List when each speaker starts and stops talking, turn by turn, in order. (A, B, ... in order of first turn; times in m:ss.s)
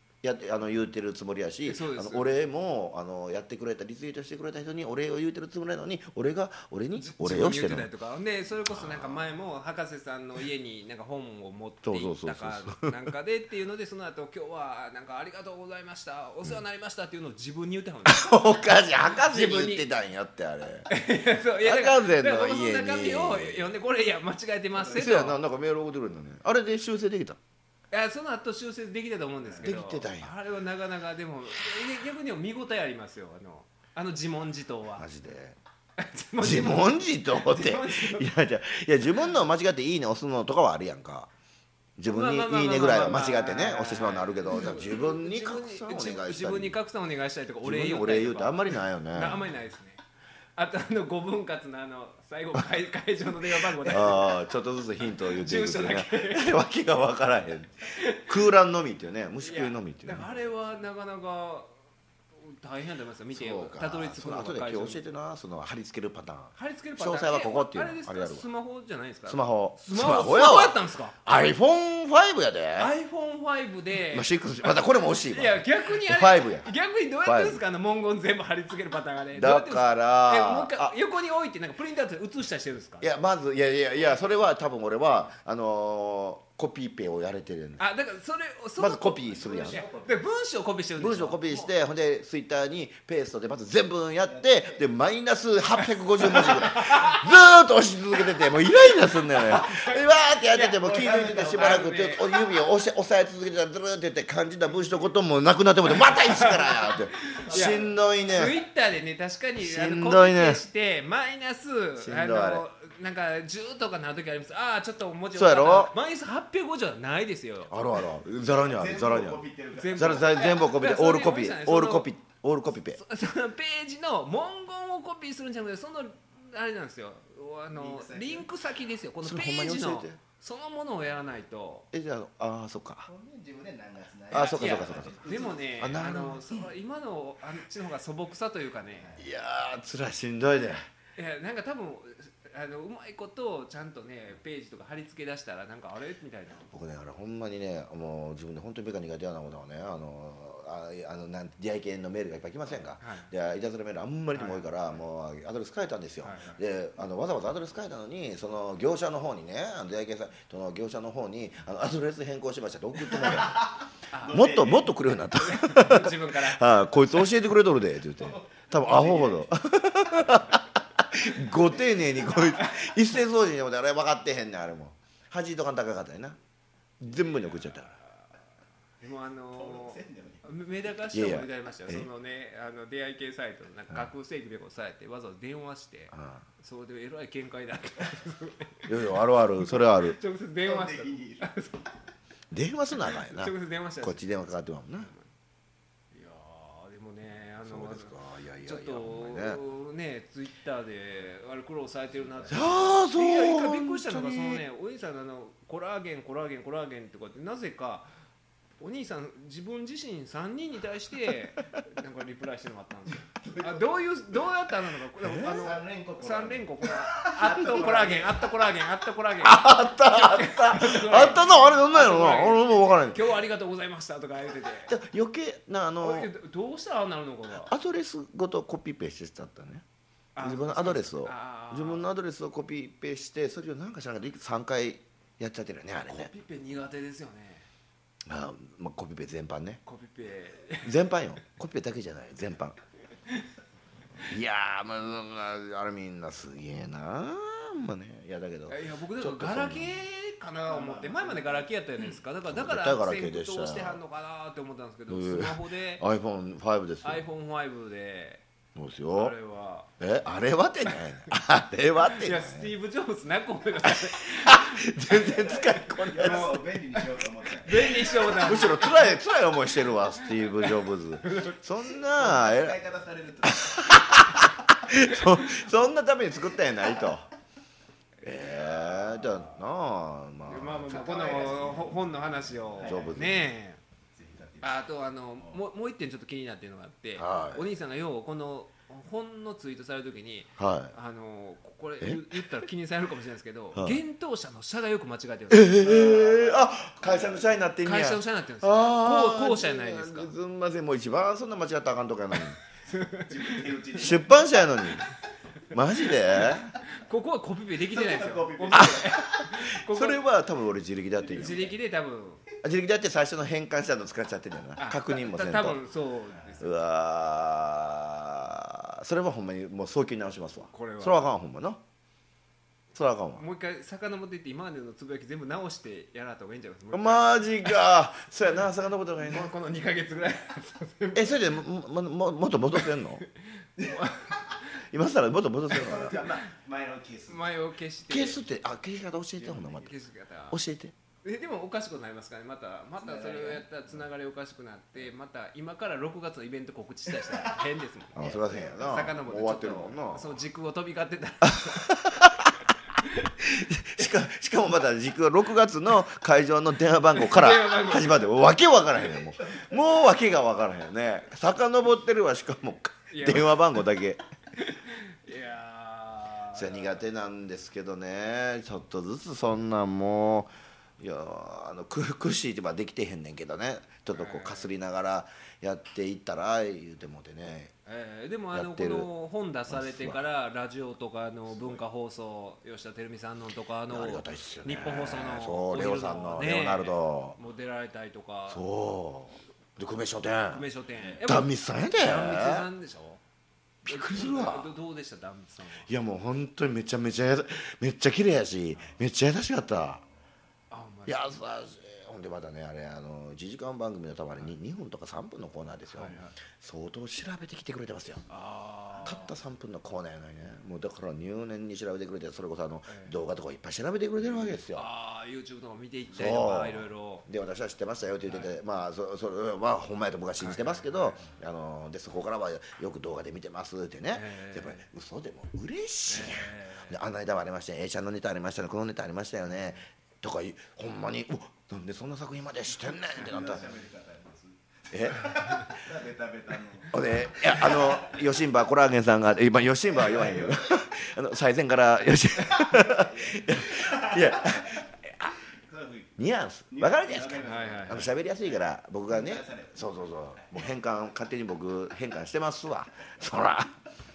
0:00.2-0:07.9 A
0:01.7-0:02.4 B
0:07.0-0:18.4 B
0:08.7-0:09.2 A
0:11.8-0:13.0 A
0:18.1-0:20.9 A
0:19.2-0:19.9 B
0:20.9-0:25.4 B
0:21.6-0:23.7 A
0:24.8-0:27.4 A
0:27.9-0:35.1 B
0:29.4-0:29.7 C
0:29.6-0:30.3 A
0:35.0-0:35.6 A
0:36.0-0:38.3 B
0:36.4-0:41.3 A
0:42.0-0:46.8 A
0:42.1-0:50.0 B
0:47.6-0:49.4 A
0:50.6-0:54.3 B
0:53.6-1:00.4 A
0:55.2-0:56.6 B
0:57.9-0:58.3 B
0:59.4-1:01.7 B
1:02.4-1:05.0 B
1:03.3-1:08.4 A
1:06.6-1:11.2 B
1:09.3-1:12.9 A
1:12.8-1:23.1 B
1:14.1-1:16.7 A
1:17.3-1:17.6 A
1:19.4-1:21.0 A
1:23.0-1:27.8 A
1:27.8-1:31.4 B
1:28.8-1:29.8 A
1:29.3-1:30.2 C
1:31.0-1:48.6 A
1:34.2-1:34.9 C
1:36.2-1:37.2 B
1:39.3-1:40.0 B
1:40.5-1:40.8 B
1:40.6-1:41.9 C
1:41.5-1:42.2 B
1:46.0-1:57.7 B
1:47.5-1:47.9 C
1:49.6-1:50.6 A
1:52.0-1:52.6 A
1:55.3-1:55.9 A
1:57.7-1:59.4 A
1:58.6-2:00.4 C
1:59.8-2:02.1 B
1:59.9-2:03.0 A
2:03.0-2:11.9 B
2:07.7-2:08.5 C
2:09.2-2:10.2 A
2:11.9-2:13.1 A
2:13.1-2:15.8 C
2:14.3-2:16.6 A
2:14.3-2:19.2 B
2:18.9-2:19.2 C
2:19.2-2:20.8 A
2:21.2-2:26.7 B
2:26.7-2:43.6 A
2:33.0-2:33.3 B
2:34.3-2:34.7 B
2:36.2-2:36.6 B
2:43.2-2:43.7 C
2:44.1-2:44.8 B
2:44.3-2:44.8 C
2:44.3-2:56.4 A
2:45.4-2:46.8 B
2:48.2-2:49.5 C
2:51.6-2:52.4 C
2:52.6-2:52.9 B
2:57.0-2:57.9 A
2:57.2-2:57.6 B
2:59.0-3:08.9 B
2:59.5-3:00.4 C
3:01.1-3:02.1 A
3:06.1-3:06.4 A
3:08.9-3:10.2 A
3:09.6-3:11.9 B
3:10.6-3:11.5 C
3:12.5-3:15.1 A
3:13.0-3:14.2 B
3:16.1-3:18.1 B
3:17.6-3:19.6 A
3:18.6-3:28.1 B
3:22.5-3:24.6 A
3:28.8-3:44.9 B
3:33.4-3:33.9 C
3:35.2-3:35.6 A
3:35.3-3:38.6 C
3:39.4-3:43.2 A
3:44.9-3:46.3 A
3:46.0-3:47.7 B
3:47.6-3:49.8 A
3:50.4-3:52.1 B
3:50.4-3:56.3 A
3:56.1-3:57.7 B
3:58.3-3:59.8 A
3:59.8-4:01.0 B
4:00.8-4:02.8 A
4:04.2-4:10.0 A
4:08.7-4:16.0 B
4:10.7-4:11.7 C
4:12.5-4:14.0 A
4:15.1-4:17.2 A
4:17.0-4:18.4 B
4:18.8-4:19.4 A
4:19.1-4:19.9 B
4:20.0-4:22.7 A
4:22.0-4:25.2 B
4:23.8-4:26.6 A
4:25.1-4:28.3 C
4:26.2-4:26.6 B
4:27.6-4:29.1 B
4:28.3-4:32.8 A
4:30.2-4:31.6 B
4:32.2-4:34.2 C
4:33.4-4:37.3 A
4:38.2-4:41.1 A
4:38.5-4:39.0 C
4:39.0-4:39.5 B
4:40.5-4:43.8 B
4:40.9-4:42.1 C
4:42.7-4:43.4 C
4:42.8-4:43.5 A
4:44.2-4:45.6 C
4:44.6-4:56.1 B
4:47.2-4:47.7 A
4:50.6-4:51.0 A
4:52.0-4:52.5 A
4:53.8-4:54.0 A
4:55.5-5:02.6 A
4:55.8-4:57.7 C
4:57.8-5:00.3 B
5:02.9-5:03.8 B
5:03.2-5:05.1 C
5:04.0-5:05.0 A
5:05.7-5:06.7 A
5:06.3-5:10.2 B
5:07.9-5:09.4 C
5:08.7-5:11.7 A
5:11.2-5:11.7 C
5:11.3-5:12.4 B
5:12.6-5:15.8 A
5:14.8-5:16.7 B
5:16.6-5:21.8 A
5:20.7-5:21.3 B
5:22.9-5:23.4 A
5:23.4-5:27.9 B
5:26.9-5:29.5 A
5:29.2-5:31.5 B
5:31.2-5:33.2 A
5:32.8-5:34.6 B
5:33.8-5:34.1 C
5:34.9-5:36.2 A
5:35.7-5:37.5 C
5:37.3-5:38.4 B
5:38.1-5:39.9 A
5:39.4-5:39.8 C
5:39.8-5:40.6 B
5:40.5-5:41.0 A
5:41.2-5:51.9 B
5:43.0-5:43.6 C
5:48.2-5:50.4 A
5:48.2-5:48.9 C
5:51.5-5:52.6 A
5:53.0-5:53.3 B
5:53.4-6:04.2 A
5:57.1-5:58.3 B
5:59.0-6:00.2 C
6:03.1-6:03.6 B
6:04.6-6:07.0 B
6:06.5-6:17.7 A
6:14.1-6:14.7 B
6:17.9-6:28.6 B
6:18.5-6:19.1 A
6:19.7-6:20.2 A
6:21.5-6:21.8 C
6:23.9-6:27.4 A
6:28.5-6:30.6 A
6:30.5-6:33.2 B
6:31.2-6:32.7 A
6:33.8-6:34.7 A
6:33.9-6:35.9 B
6:35.8-6:40.0 A
6:40.7-6:41.3 B
6:41.1-6:48.2 A
6:45.9-6:46.4 B
6:48.3-6:49.3 B
6:49.0-6:54.9 A
6:52.9-6:53.2 B
6:54.7-6:57.3 B
6:56.1-7:13.6 A
6:58.3-6:58.5 B
7:00.4-7:01.2 B
7:04.1-7:04.9 B
7:06.1-7:07.0 B
7:13.2-7:18.4 C
7:14.9-7:15.8 A
7:16.9-7:25.4 A
7:19.9-7:20.9 C
7:22.4-7:24.9 C
7:25.5-7:26.2 C
7:26.2-7:33.8 A
7:26.7-7:30.7 C
7:27.4-7:28.1 B